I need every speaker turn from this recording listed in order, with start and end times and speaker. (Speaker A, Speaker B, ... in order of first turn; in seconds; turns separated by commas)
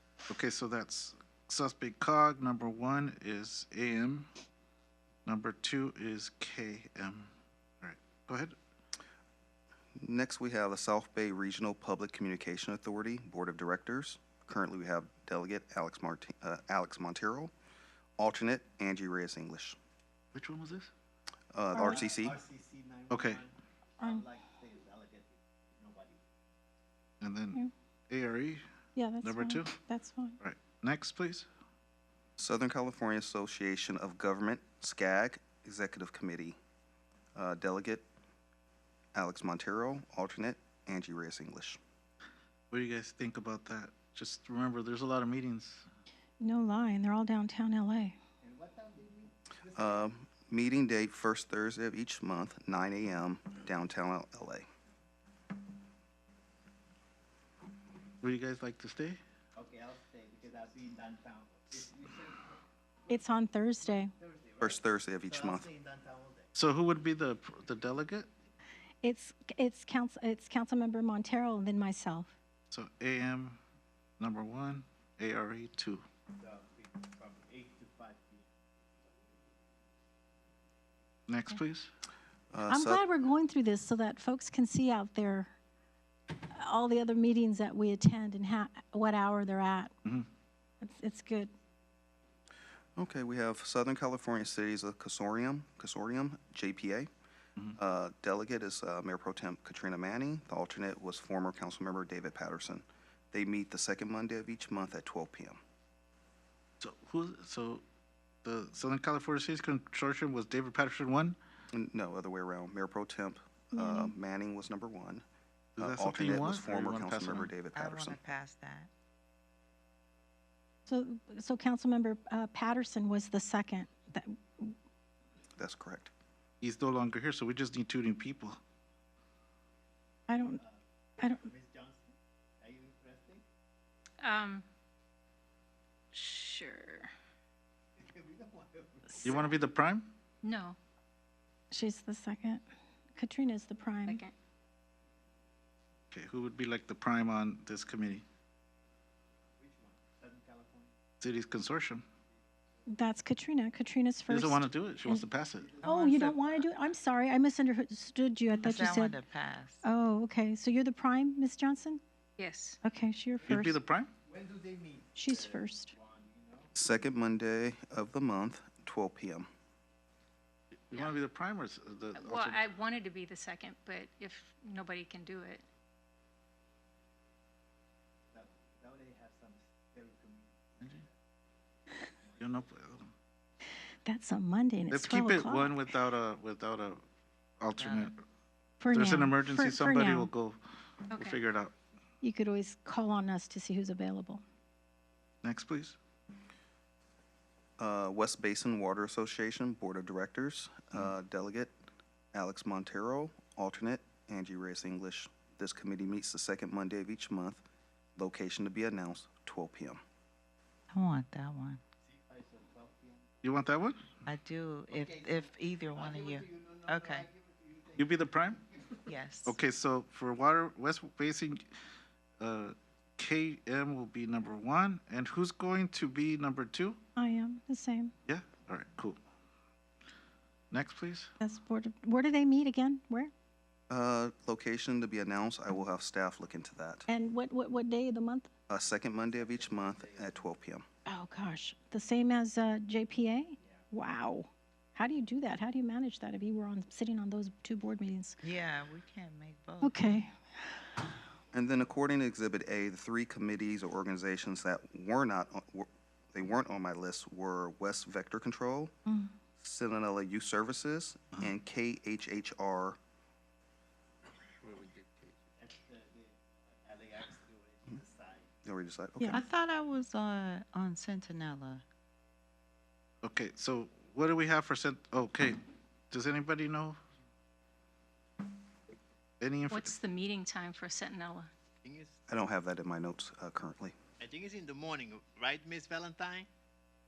Speaker A: 0.3-4.3, Speaker A: 5.2-8.5, Speaker B: 10.0-17.5, Speaker B: 18.2-19.8, Speaker A: 20.3-20.9, Speaker B: 21.5-22.4, Speaker C: 21.7-22.1, Speaker D: 21.7-26.2, Speaker A: 23.1-23.4, Speaker A: 27.2-28.6, Speaker C: 28.9-30.4, Speaker A: 29.2-29.8, Speaker A: 30.4-31.5, Speaker B: 32.4-36.5, Speaker B: 37.4-38.0, Speaker B: 39.1-41.8, Speaker A: 42.7-45.9, Speaker C: 46.4-48.2, Speaker D: 48.4-50.1, Speaker B: 49.7-54.7, Speaker A: 58.2-59.2, Speaker D: 59.5-63.2, Speaker C: 63.1-64.1, Speaker D: 63.8-66.5, Speaker B: 64.6-65.7, Speaker A: 66.5-68.3, Speaker C: 69.0-72.3, Speaker A: 72.7-73.6, Speaker A: 74.2-76.0, Speaker D: 76.4-78.6, Speaker A: 81.3-81.9, Speaker B: 82.5-83.0, Speaker C: 82.7-85.5, Speaker C: 86.4-89.9, Speaker C: 90.8-91.5, Speaker B: 93.0-97.1, Speaker B: 97.8-105.6, Speaker A: 106.8-107.8, Speaker A: 108.4-111.4, Speaker B: 111.7-115.2, Speaker C: 113.7-114.1, Speaker A: 115.8-117.5, Speaker B: 115.8-118.2, Speaker E: 117.7-118.9, Speaker C: 120.9-124.7, Speaker B: 125.6-126.1, Speaker A: 126.6-128.6, Speaker C: 130.3-130.6, Speaker D: 130.6-133.4, Speaker C: 131.2-131.5, Speaker F: 134.2-134.7, Speaker C: 136.1-137.1, Speaker D: 138.0-139.6, Speaker A: 139.2-140.1, Speaker F: 140.4-140.8, Speaker C: 141.7-144.2, Speaker F: 144.1-144.3, Speaker A: 146.1-148.2, Speaker D: 149.6-150.9, Speaker A: 151.2-152.0, Speaker C: 152.9-155.2, Speaker A: 154.3-155.7, Speaker D: 155.6-156.4, Speaker E: 155.8-156.5, Speaker C: 155.8-159.2, Speaker E: 158.6-159.8, Speaker C: 159.8-162.0, Speaker F: 162.4-162.8, Speaker C: 162.8-163.8, Speaker A: 163.4-164.1, Speaker D: 164.2-166.7, Speaker C: 165.2-165.9, Speaker B: 166.7-169.5, Speaker A: 170.9-172.7, Speaker F: 172.2-175.6, Speaker D: 178.3-181.1, Speaker D: 182.2-182.5, Speaker A: 182.4-183.1, Speaker C: 184.0-185.8, Speaker A: 184.9-187.0, Speaker A: 187.6-188.2, Speaker C: 188.8-190.3, Speaker A: 188.9-190.6, Speaker F: 191.1-191.4, Speaker A: 191.1-191.7, Speaker C: 192.2-194.4, Speaker A: 195.4-196.0, Speaker B: 197.8-201.7, Speaker B: 202.3-207.6, Speaker B: 208.2-210.0, Speaker E: 210.9-211.8, Speaker D: 212.0-213.8, Speaker A: 213.4-214.1, Speaker E: 214.3-217.3, Speaker D: 214.9-219.0, Speaker A: 218.0-218.6, Speaker E: 219.1-219.5, Speaker A: 219.4-221.6, Speaker A: 222.4-227.0, Speaker C: 227.2-228.1, Speaker A: 228.3-229.2, Speaker A: 230.7-231.3, Speaker C: 231.4-233.3, Speaker B: 233.9-237.1, Speaker C: 237.1-238.5, Speaker B: 238.7-240.8, Speaker D: 239.3-240.3, Speaker C: 241.1-248.4, Speaker E: 248.4-250.0, Speaker C: 249.8-250.3, Speaker B: 251.5-258.9, Speaker C: 259.1-259.3, Speaker B: 259.6-263.0, Speaker D: 265.6-268.5, Speaker B: 268.6-269.4, Speaker C: 269.2-269.4, Speaker E: 269.3-271.8, Speaker A: 273.2-277.0, Speaker A: 279.4-280.0, Speaker F: 279.7-281.5, Speaker D: 281.8-282.2, Speaker B: 282.3-283.9, Speaker D: 284.2-286.5